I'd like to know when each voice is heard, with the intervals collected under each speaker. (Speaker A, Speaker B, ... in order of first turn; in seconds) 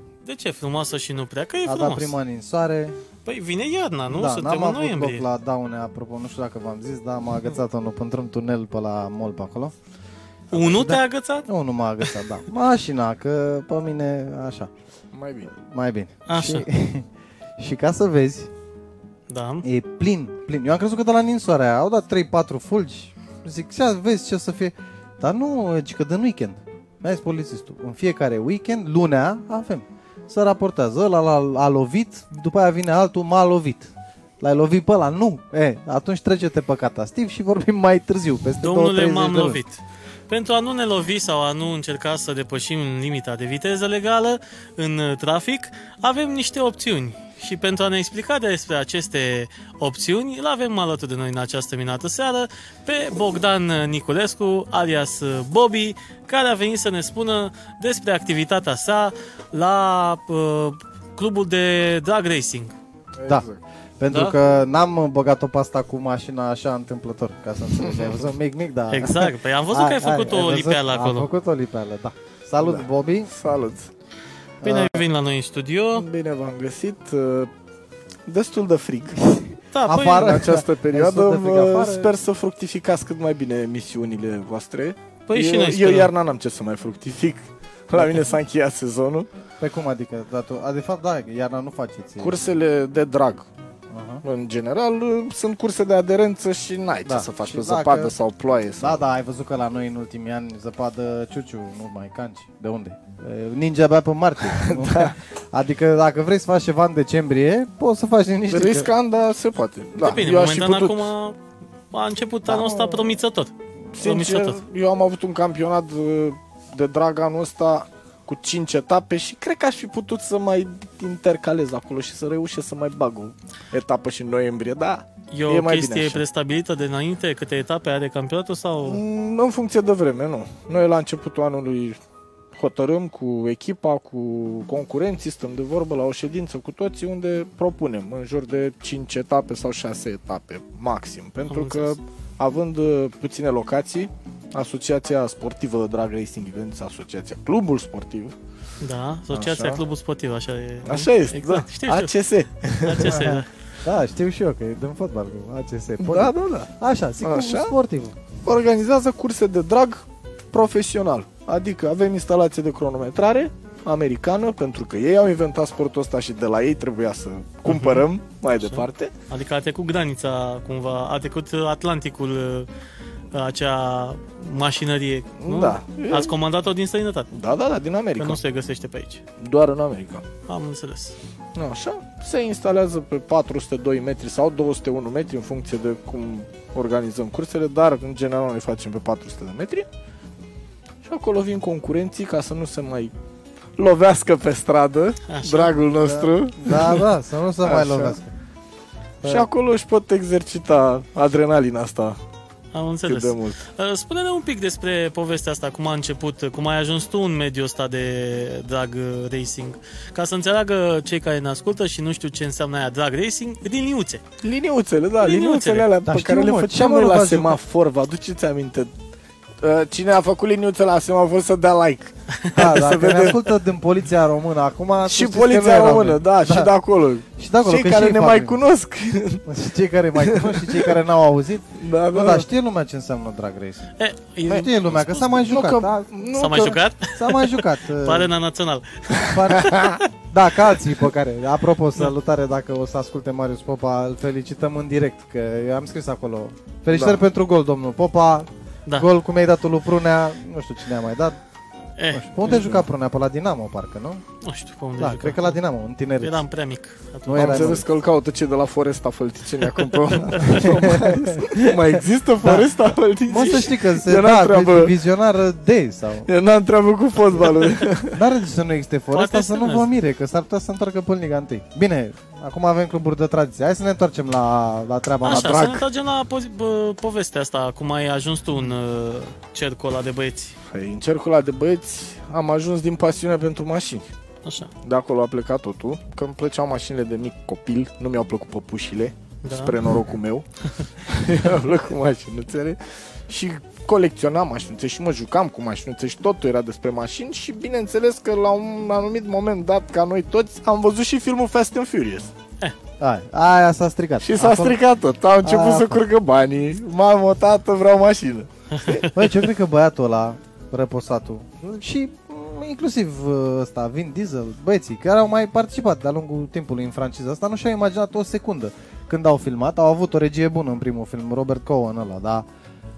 Speaker A: 0.2-2.1, 3.2-5.2, 10.5-11.5, 16.3-16.7, 19.3-19.6, 38.6-62.7, 64.1-64.3, 68.9-71.3, 74.6-76.0, 79.7-80.4, 85.3-86.1, 110.0-111.4, 111.9-114.6, 125.3-129.0, 141.5-142.0, 148.8-152.1, 152.8-153.5, 167.7-168.1, 168.6-172.7, 173.3-177.3, 178.2-179.2, 180.4-181.2, 195.3-195.8, 202.7-214.2, 215.2-215.9, 234.0-235.3, 236.3-240.0, 252.0-252.2, 254.4-255.6, 256.2-257.8, 259.8-260.6, 263.3-263.6, 269.1-269.9, 275.2-280.6, 284.4-284.7, 289.4-289.8
Speaker B: 1.6-3.0, 4.1-9.7, 10.5-14.7, 15.6-17.1, 17.6-18.5, 19.6-39.6, 64.0-73.3, 74.6-75.0, 79.9-82.1, 88.0-88.2, 89.6-92.4, 93.9-94.2, 97.0-98.1, 98.8-108.9, 112.5-113.2, 153.1-158.1, 196.1-198.3, 199.2-199.5, 216.1-217.6, 222.5-226.7, 227.4-228.6, 229.4-233.9, 234.5-238.3, 239.3-251.4, 252.1-254.2, 255.0-256.4, 257.3-257.8, 260.4-266.3, 268.1-275.7, 303.0-304.8, 305.4-306.0, 309.1-322.5
Speaker C: 15.1-15.5, 63.2-63.6, 67.8-68.2, 72.6-73.9, 75.9-77.5, 78.3-79.5, 80.2-89.3, 92.2-93.5, 94.2-99.0, 104.5-105.1, 108.5-111.0, 114.0-126.2, 128.8-132.0, 132.6-148.3, 149.3-149.8, 150.9-153.3, 156.0-156.7, 157.2-157.7, 158.4-169.1, 175.4-176.3, 177.3-178.4, 179.4-180.2, 181.6-189.9, 191.1-193.1, 193.8-197.1, 197.6-198.2, 199.2-202.2, 203.1-203.6, 214.4-218.9, 219.6-223.5, 225.1-229.4, 230.2-231.0, 231.8-232.5, 235.3-236.8, 239.5-240.0, 246.9-247.2, 252.4-252.8, 257.4-264.9, 266.3-268.2, 275.2-275.8, 280.7-284.1, 284.8-290.5, 291.0-302.3, 304.2-309.3